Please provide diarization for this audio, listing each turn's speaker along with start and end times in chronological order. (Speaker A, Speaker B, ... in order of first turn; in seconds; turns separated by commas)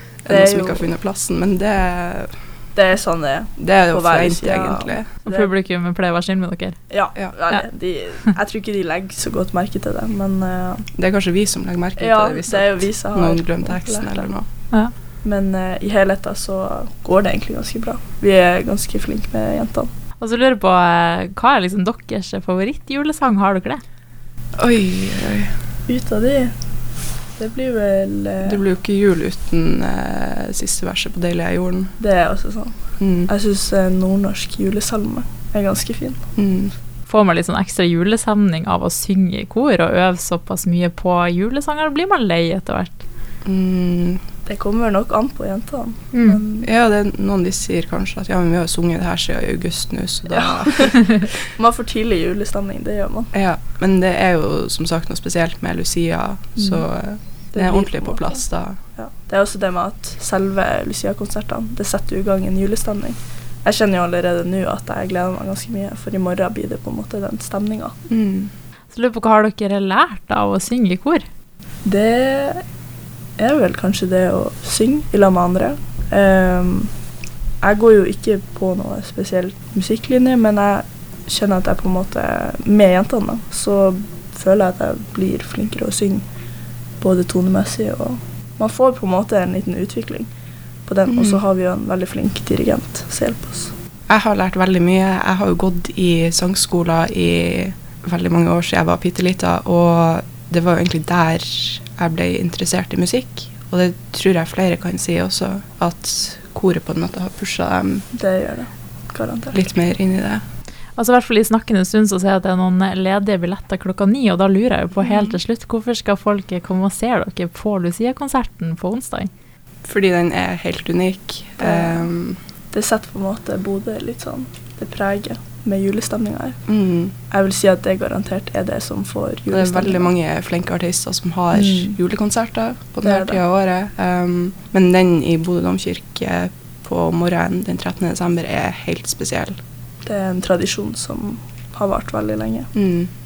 Speaker A: 0.2-2.3, Speaker B: 0.3-0.9, Speaker B: 2.8-5.5, Speaker A: 3.6-5.1, Speaker C: 5.2-6.8, Speaker B: 6.9-10.9, Speaker A: 10.9-14.5, Speaker B: 12.0-14.2, Speaker B: 15.2-19.9, Speaker C: 20.2-23.8, Speaker A: 24.6-25.6, Speaker B: 25.9-26.5, Speaker B: 27.4-28.6, Speaker A: 28.4-31.9, Speaker B: 32.0-32.7, Speaker A: 33.0-33.3, Speaker B: 33.3-36.2, Speaker A: 36.4-36.7, Speaker C: 37.1-42.9, Speaker A: 43.5-44.2, Speaker B: 44.5-46.7, Speaker C: 46.1-46.4, Speaker A: 46.6-51.3, Speaker B: 50.3-53.3, Speaker A: 53.3-58.8, Speaker B: 56.6-56.8, Speaker B: 57.5-58.4, Speaker B: 59.0-67.9, Speaker A: 68.1-68.5, Speaker C: 68.9-71.2, Speaker B: 71.8-72.6, Speaker B: 73.4-76.9, Speaker B: 77.6-86.2, Speaker B: 87.0-90.3, Speaker B: 90.9-93.7, Speaker A: 91.1-91.4, Speaker A: 94.1-108.1, Speaker B: 108.1-109.6, Speaker A: 109.5-110.4, Speaker C: 111.0-119.3, Speaker A: 115.0-115.4, Speaker A: 119.8-122.4, Speaker B: 121.6-122.1, Speaker B: 122.7-126.6, Speaker A: 126.7-127.1, Speaker B: 127.3-130.1, Speaker A: 129.5-139.6, Speaker B: 131.5-132.0, Speaker B: 133.0-133.4, Speaker B: 140.0-142.7, Speaker A: 142.7-143.1